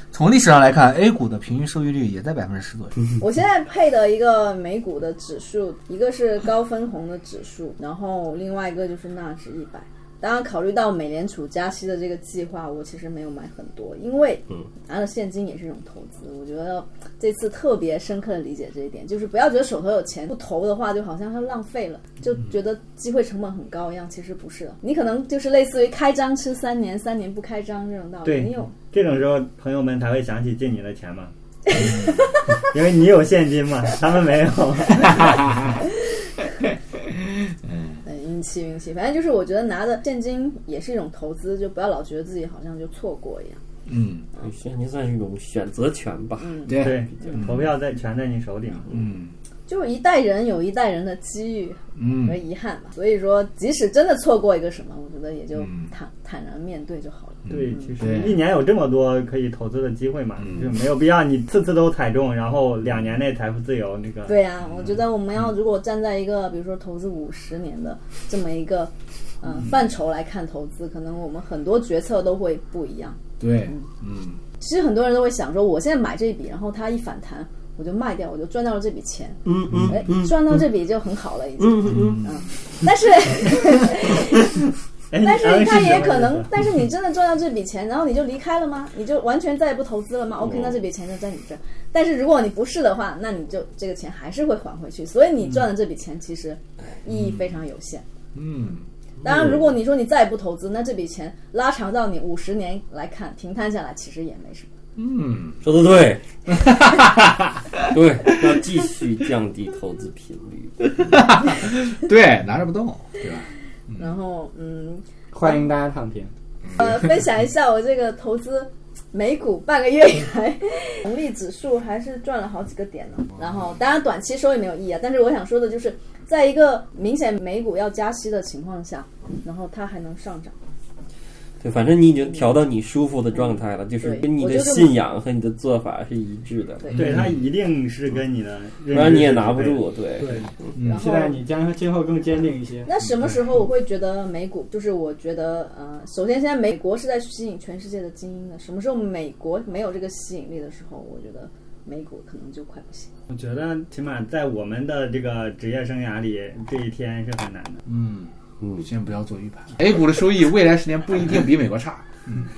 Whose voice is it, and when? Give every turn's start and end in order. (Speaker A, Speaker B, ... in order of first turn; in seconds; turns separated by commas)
Speaker A: 0.1-3.1, Speaker B: 3.2-28.8, Speaker C: 28.2-31.3, Speaker B: 31.7-32.4, Speaker C: 32.6-35.5, Speaker A: 37.5-38.0, Speaker B: 38.0-43.6, Speaker A: 43.9-44.3, Speaker D: 44.4-46.7, Speaker B: 46.4-46.8, Speaker A: 46.7-47.7, Speaker C: 46.7-49.0, Speaker A: 48.9-49.3, Speaker B: 49.7-57.9, Speaker A: 52.0-52.4, Speaker A: 57.5-58.5, Speaker C: 57.5-64.4, Speaker B: 64.3-73.9, Speaker A: 73.4-74.4, Speaker B: 74.6-84.5, Speaker D: 79.5-80.6, Speaker A: 79.7-80.0, Speaker D: 81.6-82.2, Speaker A: 81.9-82.4, Speaker C: 85.1-86.5, Speaker B: 85.2-98.0, Speaker A: 97.1-97.4, Speaker A: 98.3-98.9, Speaker B: 99.2-104.7, Speaker A: 105.0-105.7, Speaker D: 105.6-106.7, Speaker A: 106.5-107.8, Speaker D: 107.8-111.1, Speaker A: 111.0-114.0, Speaker B: 114.0-115.0, Speaker E: 115.3-116.3, Speaker A: 116.7-117.0, Speaker B: 116.7-130.6, Speaker D: 131.6-136.9, Speaker B: 134.0-135.0, Speaker B: 136.8-137.2, Speaker C: 136.9-139.8, Speaker A: 136.9-137.3, Speaker D: 138.9-140.5, Speaker E: 140.2-142.9, Speaker A: 140.8-141.1, Speaker B: 140.8-141.4, Speaker B: 142.8-153.1, Speaker C: 153.3-157.8, Speaker A: 157.9-162.5